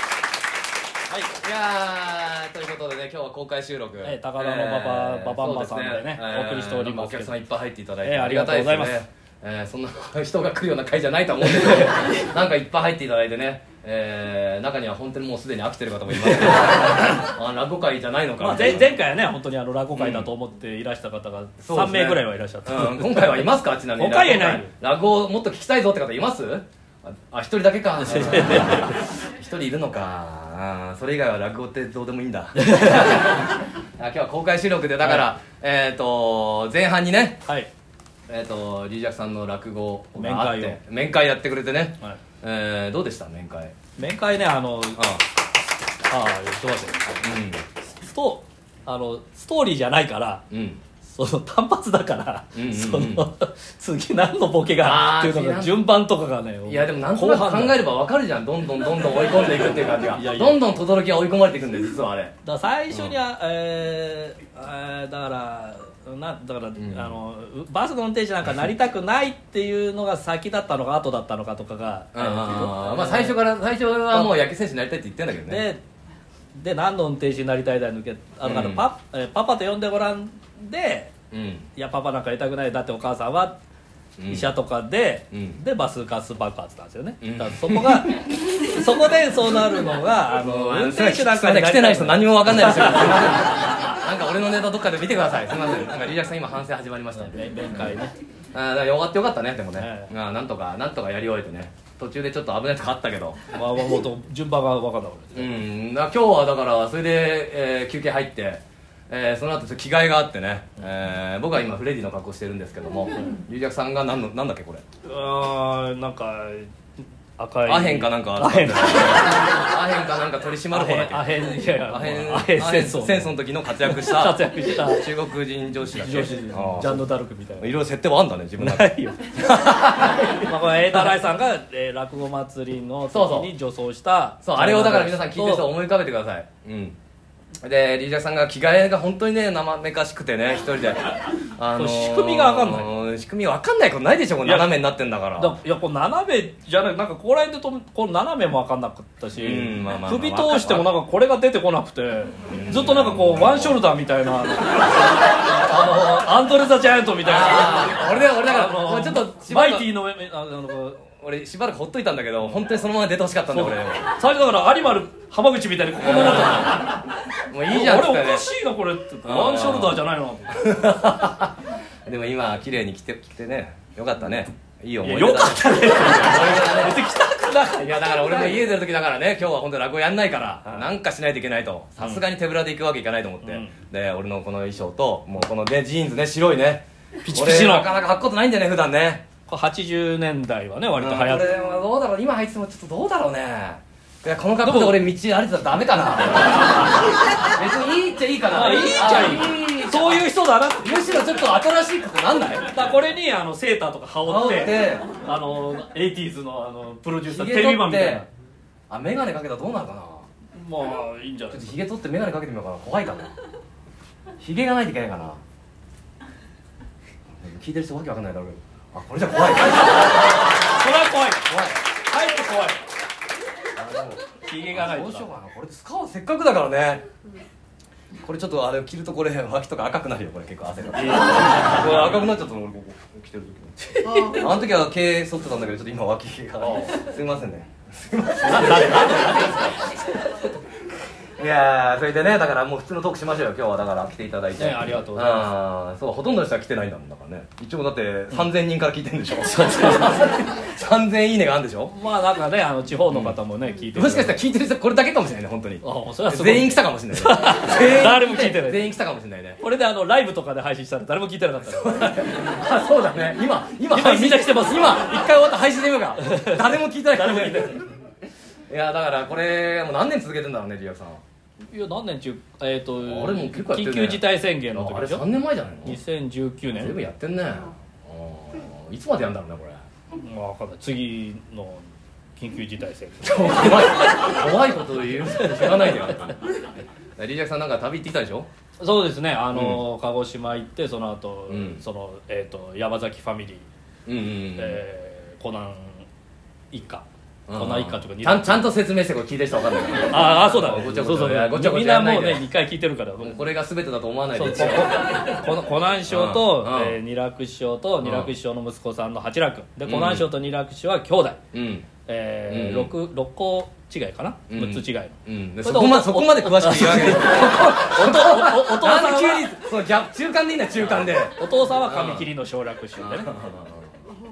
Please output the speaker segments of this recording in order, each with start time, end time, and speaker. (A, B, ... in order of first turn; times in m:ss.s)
0:01.1-0:01.4 A
0:01.4-0:19.0 B
0:04.0-0:07.4 A
0:08.0-0:09.0 A
0:11.8-0:12.2 A
0:16.4-0:17.1 A
0:18.4-0:24.7 A
0:19.9-0:20.3 B
0:21.6-0:33.4 B
0:28.0-0:29.0 A
0:32.6-0:33.4 A
0:34.0-0:37.4 B
0:38.3-0:43.7 B
0:40.2-0:40.8 A
0:44.0-0:45.2 A
0:46.0-0:47.2 A
0:47.2-0:47.6 B
0:47.8-0:50.4 A
0:50.5-0:50.8 B
0:51.0-0:57.9 A
0:52.5-0:53.2 B
0:54.8-0:55.9 B
0:56.7-1:02.3 B
1:00.1-1:00.6 A
1:02.4-1:13.4 A
1:02.9-1:03.2 B
1:06.8-1:07.1 B
1:12.1-1:15.6 B
1:15.5-1:15.8 A
1:16.5-1:21.1 A
1:18.4-1:18.9 B
1:21.3-1:21.7 B
1:21.8-1:23.6 A
1:24.2-1:24.5 B
1:24.3-1:33.8 A
1:25.3-1:25.6 B
1:27.2-1:28.2 B
1:30.4-1:38.0 B
1:37.1-1:38.1 A
1:38.5-1:43.4 B
1:39.8-1:40.1 A
1:43.5-1:45.5 A
1:45.3-1:54.8 B
1:55.0-1:56.7 A
1:57.4-1:59.5 A
1:57.6-2:07.0 B
2:00.7-2:05.1 A
2:06.0-2:07.8 A
2:07.6-2:11.2 B
2:08.6-2:15.7 A
2:13.1-2:13.5 B
2:14.4-2:17.0 B
2:17.6-2:25.6 B
2:21.7-2:22.9 A
2:24.4-2:24.7 A
2:25.4-2:41.0 A
2:29.4-2:30.9 B
2:32.5-2:33.8 B
2:37.2-2:39.9 B
2:41.2-2:44.1 B
2:43.5-2:47.0 A
2:46.0-2:46.8 B
2:47.5-2:48.5 B
2:47.7-2:50.8 A
2:49.2-2:51.5 B
2:52.0-2:57.0 B
2:55.0-2:58.7 A
2:57.7-3:09.2 B
3:03.4-3:03.7 A
3:07.2-3:07.9 A
3:09.5-3:11.5 A
3:11.0-3:17.0 B
3:14.6-3:15.0 A
3:17.5-3:20.3 B
3:18.5-3:21.2 A
3:20.8-3:22.7 B
3:22.6-3:28.3 A
3:24.2-3:25.0 B
3:27.3-3:28.2 B
3:28.9-3:30.3 B
3:30.5-3:31.7 A
3:31.5-3:33.3 B
3:34.4-3:35.4 B
3:37.3-3:40.1 B
3:40.6-3:42.8 A
3:41.5-3:41.8 B
3:43.8-3:47.0 B
3:44.4-3:45.3 A
3:48.2-3:59.7 B
3:51.0-3:51.9 A
3:53.9-3:54.4 A
3:58.4-4:00.0 A
4:01.4-4:11.9 B
4:04.6-4:05.5 A
4:09.4-4:10.4 A
4:11.9-4:14.4 A
4:13.1-4:13.4 B
4:13.9-4:19.6 B
4:15.8-4:18.9 A
4:19.6-4:22.3 A
4:21.6-4:27.8 B
4:23.9-4:25.0 A
4:26.2-4:27.8 A
4:28.7-4:31.2 B
4:31.7-4:35.2 A
4:33.0-4:36.0 B
4:35.8-4:36.9 A
4:36.7-4:39.8 B
4:40.2-4:41.8 A
4:42.4-4:44.3 A
4:43.2-4:46.4 B
4:45.4-4:46.0 A
4:47.2-4:48.5 B
4:48.8-4:53.7 A
4:49.5-4:49.8 B
4:51.5-4:51.8 B
4:54.0-4:54.8 B
4:54.6-4:56.1 A
4:56.7-4:58.7 A
4:57.5-5:02.4 B
5:00.1-5:03.4 A
5:03.2-5:05.0 B
5:04.3-5:11.4 A
5:06.0-5:07.0 B
5:08.0-5:08.3 B
5:09.8-5:10.3 B
5:11.5-5:11.9 B
5:12.1-5:19.5 A
5:12.5-5:12.9 B
5:14.5-5:22.3 B
5:21.4-5:23.3 A
5:23.0-5:23.9 B